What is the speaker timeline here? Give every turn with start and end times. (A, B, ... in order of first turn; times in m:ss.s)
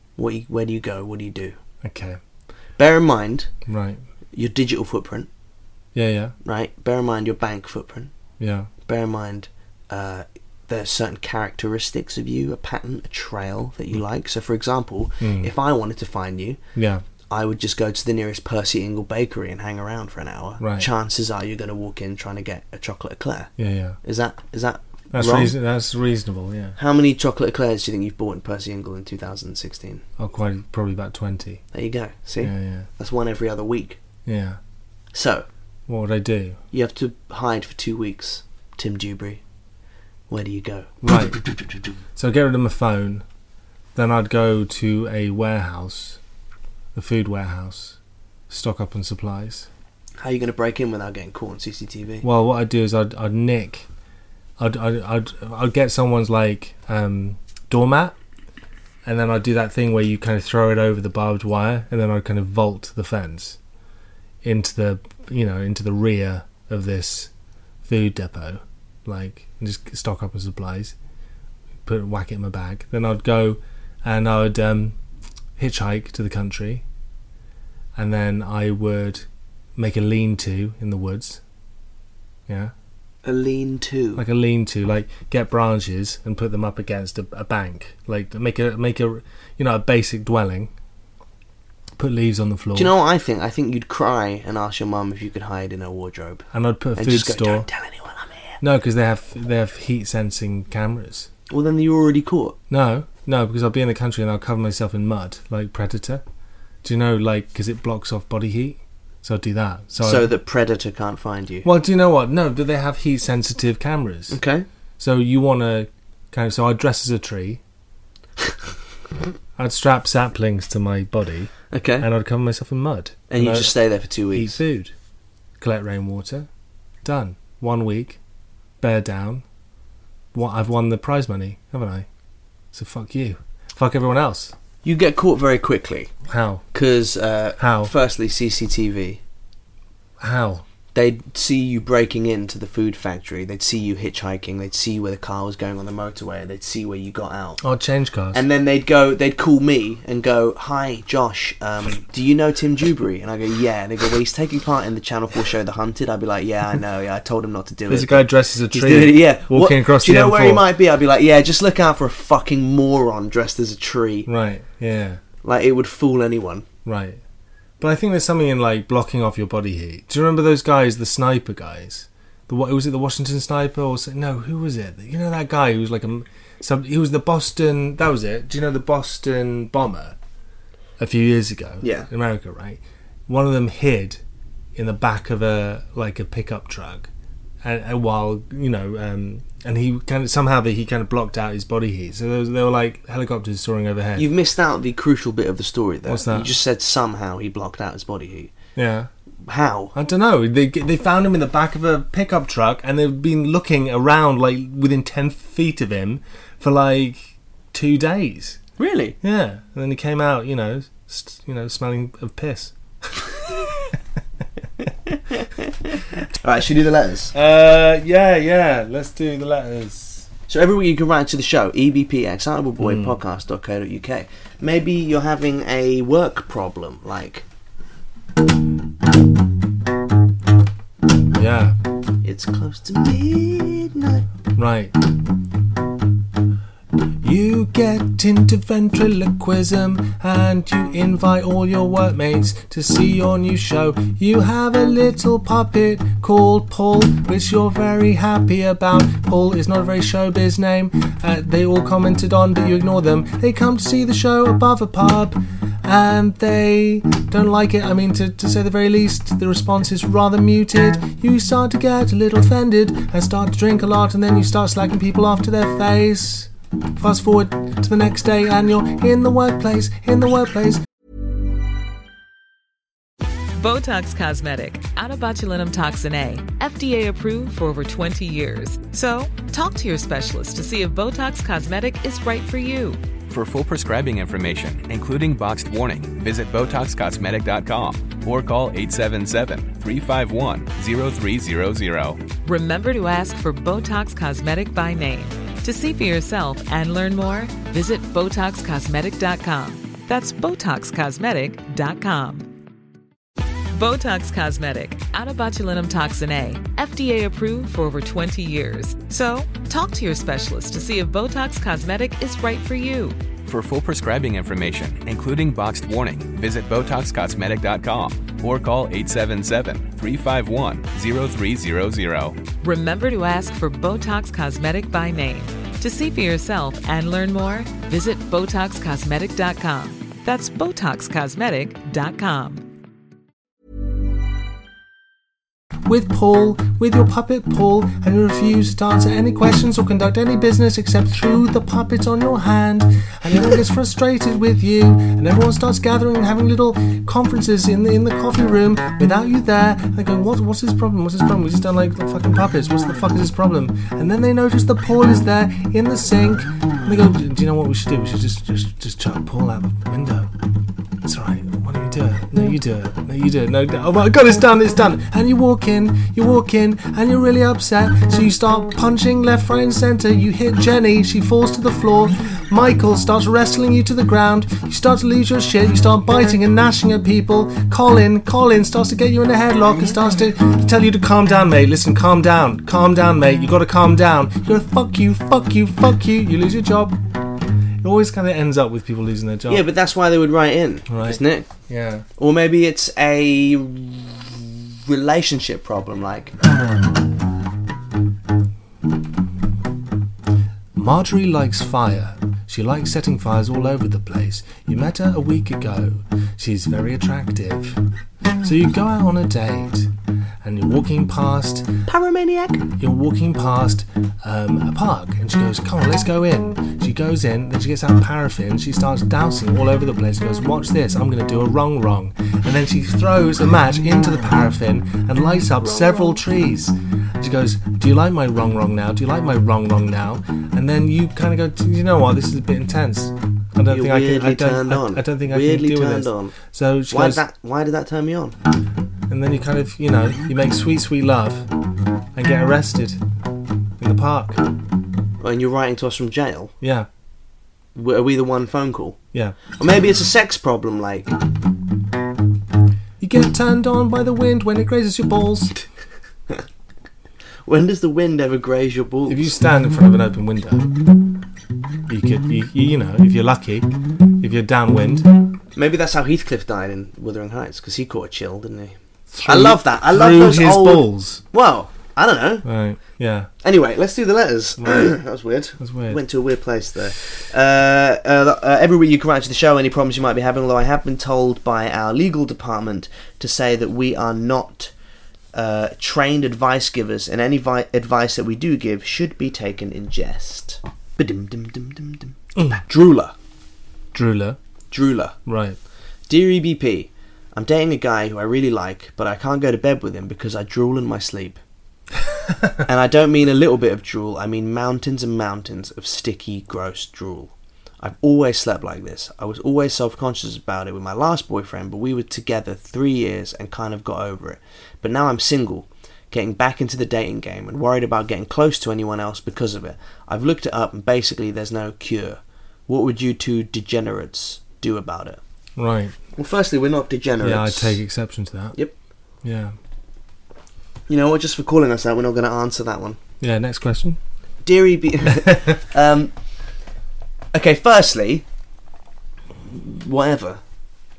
0:00.2-0:01.6 A
0:01.8-0:02.2 B
0:02.8-0:03.5 A
0:03.6-0:04.0 B
0:04.3-0:05.3 A
0:05.9-0:06.3 B
0:06.4-0:08.1 A
0:08.4-0:08.7 B
0:08.8-0:16.6 A
0:15.2-0:15.5 B
0:16.8-0:17.0 B
0:17.3-0:23.5 A
0:20.6-0:20.9 B
0:23.6-0:24.0 B
0:24.0-0:25.5 A
0:25.1-0:26.8 B
0:26.8-0:30.0 A
0:30.2-0:31.6 B
0:31.7-0:34.0 A
0:32.4-0:32.9 B
0:34.2-0:34.6 B
0:35.1-0:35.4 A
0:35.9-0:36.6 B
0:36.7-0:39.4 A
0:40.3-0:41.4 A
0:41.0-0:41.4 B
0:42.2-0:43.2 B
0:43.9-0:46.2 B
0:46.9-0:48.0 B
0:48.5-0:49.7 B
0:50.2-0:52.2 A
0:52.2-0:53.8 B
0:54.6-0:58.1 B
0:59.0-1:03.6 B
1:04.4-1:07.3 B
1:07.8-1:10.9 B
1:11.8-1:15.0 B
1:15.6-1:16.8 B
1:18.0-1:21.4 B
1:22.5-1:22.7 B
1:23.2-1:24.2 A
1:24.2-1:30.7 B
1:32.0-1:32.9 B
1:32.7-1:38.5 A
1:36.5-1:37.7 B
1:38.6-1:41.3 B
1:41.5-1:42.6 A
1:42.7-1:46.2 B
1:46.8-1:50.3 B
1:50.0-1:51.7 A
1:51.6-1:54.4 B
1:54.3-1:54.6 A
1:55.0-1:57.6 B
1:59.6-2:03.7 B
2:01.7-2:02.1 A
2:03.3-2:04.6 A
2:04.3-2:04.9 B
2:05.6-2:06.5 B
2:07.0-2:08.2 B
2:08.8-2:09.4 B
2:10.3-2:12.0 B
2:12.7-2:14.5 B
2:14.8-2:16.1 A
2:16.3-2:16.6 B
2:16.7-2:19.2 A
2:17.6-2:17.9 B
2:20.2-2:20.6 B
2:20.9-2:27.6 A
2:27.6-2:28.4 B
2:28.3-2:44.3 A
2:37.9-2:40.7 B
2:44.3-2:45.2 B
2:45.4-2:46.6 A
2:46.8-2:47.2 B
2:47.8-3:00.2 B
3:01.0-3:04.2 B
3:01.8-3:02.1 A
3:04.7-3:07.1 B
3:07.6-3:14.3 B
3:14.2-3:18.5 A
3:16.1-3:16.5 B
3:18.8-3:19.1 B
3:19.4-3:19.9 A
3:19.9-3:28.6 B
3:28.8-3:29.2 A
3:29.2-3:33.2 B
3:35.3-3:37.3 A
3:37.3-3:40.3 B
3:40.5-3:47.4 A
3:42.8-3:43.2 B
3:51.3-3:51.8 B
3:52.2-3:54.2 A
3:54.6-3:54.9 B
3:57.2-4:30.8 B
4:33.6-4:43.0 C
4:43.3-4:52.2 D
4:52.4-5:02.5 C
5:03.7-5:13.2 C
5:13.4-5:22.4 D
5:22.6-5:32.6 C
5:35.8-6:00.3 B
6:01.0-6:27.0 B
6:27.8-6:29.6 B
6:29.5-6:31.5 A
6:30.9-6:32.0 B
6:32.2-6:36.3 A
6:40.7-6:47.8 B
6:48.4-6:49.9 B
6:50.4-6:51.8 B
6:51.8-6:52.7 A
6:52.8-7:17.2 B
7:13.7-7:16.4 A
7:16.9-7:18.4 A
7:19.1-7:21.5 B
7:22.1-7:23.0 B
7:23.8-7:24.4 B
7:25.2-7:26.5 A
7:26.6-7:26.9 B
7:27.7-7:29.0 A
7:29.5-7:31.1 A
7:33.0-7:35.6 B
7:37.4-7:39.3 A
7:39.1-7:40.7 B
7:41.9-7:45.1 B
7:45.6-7:52.4 A
7:49.1-7:51.2 B
7:52.4-7:53.3 B
7:53.4-8:04.7 A
7:54.6-7:54.9 B
7:55.6-7:56.0 B
8:05.3-8:13.1 A
8:13.9-8:14.4 B
8:14.7-8:15.2 A
8:15.2-8:15.6 B
8:16.1-8:21.4 A
8:22.6-8:45.2 A
8:45.6-8:45.9 B
8:46.2-8:47.8 A
8:47.2-8:48.6 B
8:49.2-8:49.5 B
8:50.9-8:53.0 A
8:53.2-8:54.0 B
8:54.4-8:56.1 A
8:57.3-8:58.2 A
8:59.5-9:00.4 A